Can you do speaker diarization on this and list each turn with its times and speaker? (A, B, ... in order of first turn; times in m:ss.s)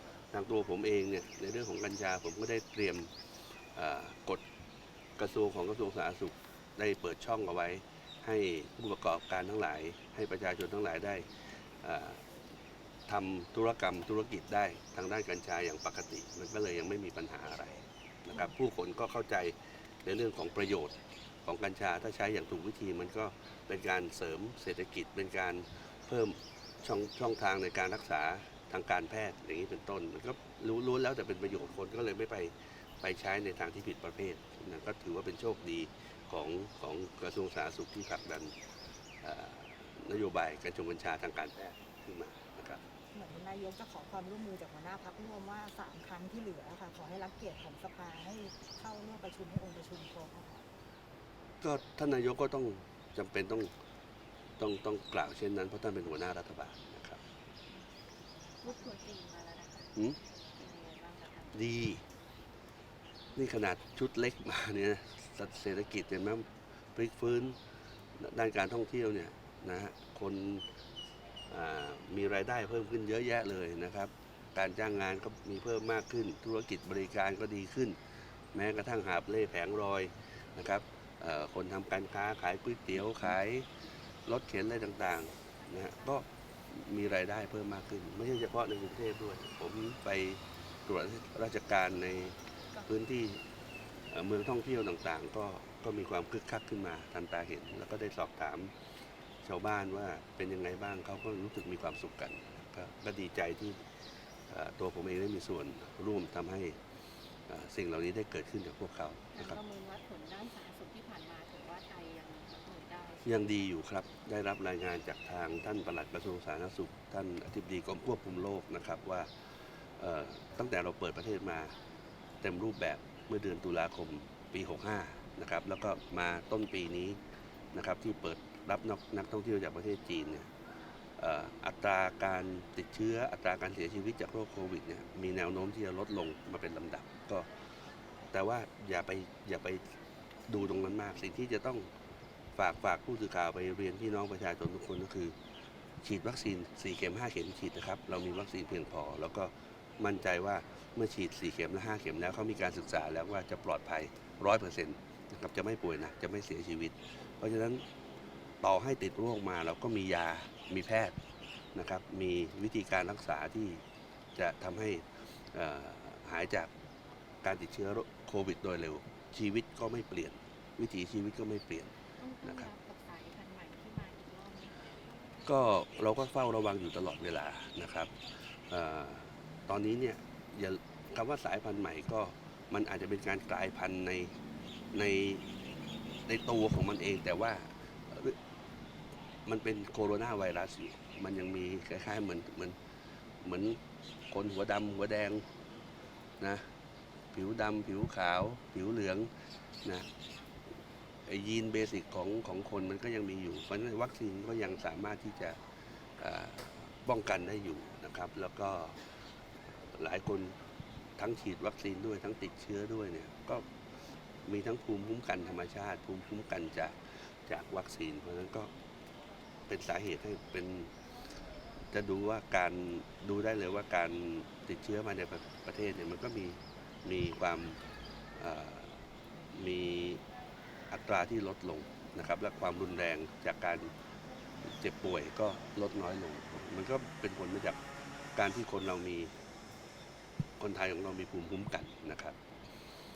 0:00.3-0:03.1 A
0:03.7-0:04.4 A
0:05.2-0:12.2 A
0:13.1-0:38.5 A
0:39.2-0:42.8 A
0:43.1-0:50.6 B
0:51.6-0:53.7 A
0:54.6-0:57.2 A
0:58.6-0:59.9 C
0:58.6-0:58.9 B
1:00.5-1:01.6 C
1:01.5-1:02.0 A
1:03.4-1:07.6 A
1:08.2-1:10.7 A
1:11.5-1:18.0 A
1:18.5-1:23.7 A
1:24.3-1:33.4 A
1:34.1-1:38.7 A
1:39.4-1:43.8 A
1:44.5-1:46.8 A
1:47.5-1:49.6 A
1:49.3-1:53.5 C
1:53.2-2:01.8 A
2:02.4-2:07.2 A
2:07.7-2:10.5 A
2:11.2-2:17.5 A
2:18.3-2:19.9 A
2:20.5-2:21.9 A
2:22.6-2:25.4 A
2:26.0-2:37.8 A
2:38.6-2:41.2 A
2:41.7-2:43.8 A
2:44.4-2:46.7 A
2:47.4-2:51.9 A
2:52.2-2:54.8 C
2:52.4-2:52.7 A
2:55.4-3:04.3 A
3:04.9-3:05.5 A
3:06.3-3:08.4 A
3:09.5-3:12.8 A
3:13.4-3:13.8 A
3:14.3-3:15.4 A
3:16.4-3:16.6 A
3:17.3-3:19.3 A
3:21.3-3:25.6 A
3:26.2-3:29.0 A
3:29.9-3:30.6 A
3:31.2-3:33.7 A
3:34.4-3:38.7 A
3:39.7-3:40.9 A
3:41.9-3:47.8 A
3:48.4-3:50.2 A
3:50.9-3:53.9 A
3:54.6-3:57.8 A
3:58.4-3:59.3 A
4:00.6-4:02.4 A